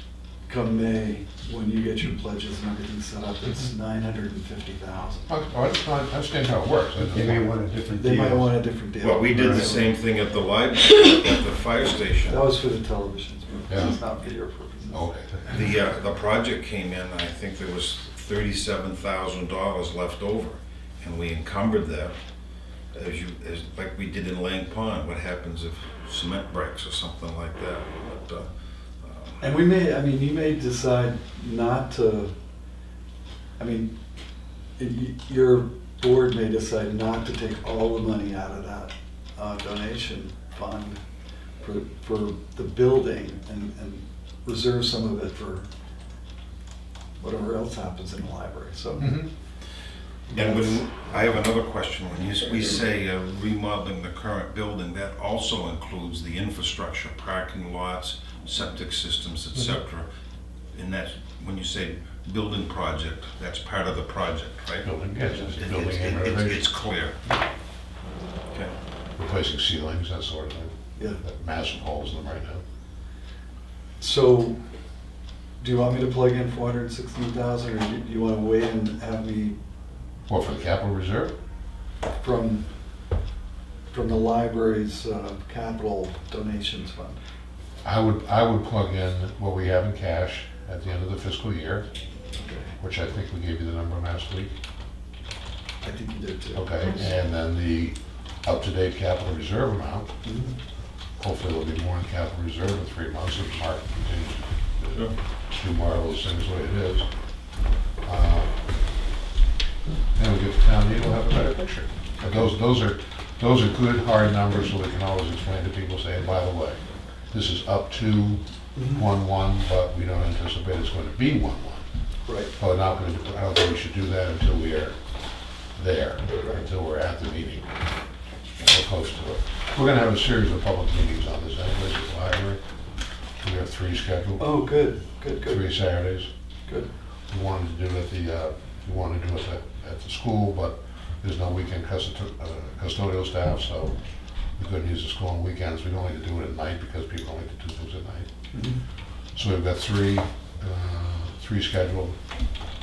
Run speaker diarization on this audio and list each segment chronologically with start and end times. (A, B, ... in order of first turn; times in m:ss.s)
0:00.5-0:05.3 A
0:05.3-0:07.5 B
0:07.0-0:08.5 C
0:08.0-0:09.9 A
0:09.0-0:12.4 D
0:09.3-0:09.7 C
0:12.3-0:15.7 A
0:13.7-0:14.0 B
0:14.9-0:15.4 B
0:15.5-0:22.2 D
0:22.9-0:28.5 D
0:29.0-0:29.4 D
0:29.4-0:32.3 A
0:33.6-0:33.9 A
0:34.8-0:41.0 A
0:41.6-0:45.6 A
0:47.2-0:49.2 A
0:49.0-0:49.3 B
0:50.3-0:50.8 A
0:50.3-1:00.1 D
1:00.7-1:04.9 D
1:04.8-1:07.4 B
1:05.4-1:07.1 D
1:09.2-1:12.6 B
1:11.0-1:11.2 A
1:14.0-1:14.6 A
1:15.6-1:19.6 A
1:20.3-1:21.3 B
1:22.2-1:22.6 A
1:23.9-1:27.2 A
1:27.8-1:31.8 B
1:32.4-1:32.7 A
1:32.8-1:34.5 B
1:35.8-1:37.1 A
1:36.5-1:40.1 B
1:40.2-1:40.6 A
1:41.2-1:47.1 B
1:48.0-1:48.5 B
1:50.1-1:56.8 B
1:52.2-1:52.5 A
1:57.3-2:01.8 B
1:58.7-1:59.0 A
2:02.2-2:02.5 A
2:02.6-2:05.0 B
2:05.8-2:07.6 B
2:08.6-2:12.6 B
2:13.4-2:14.6 B
2:14.4-2:15.7 A
2:15.4-2:16.3 B
2:17.3-2:23.9 B
2:24.6-2:28.3 B
2:28.5-2:28.8 A
2:29.3-2:32.1 B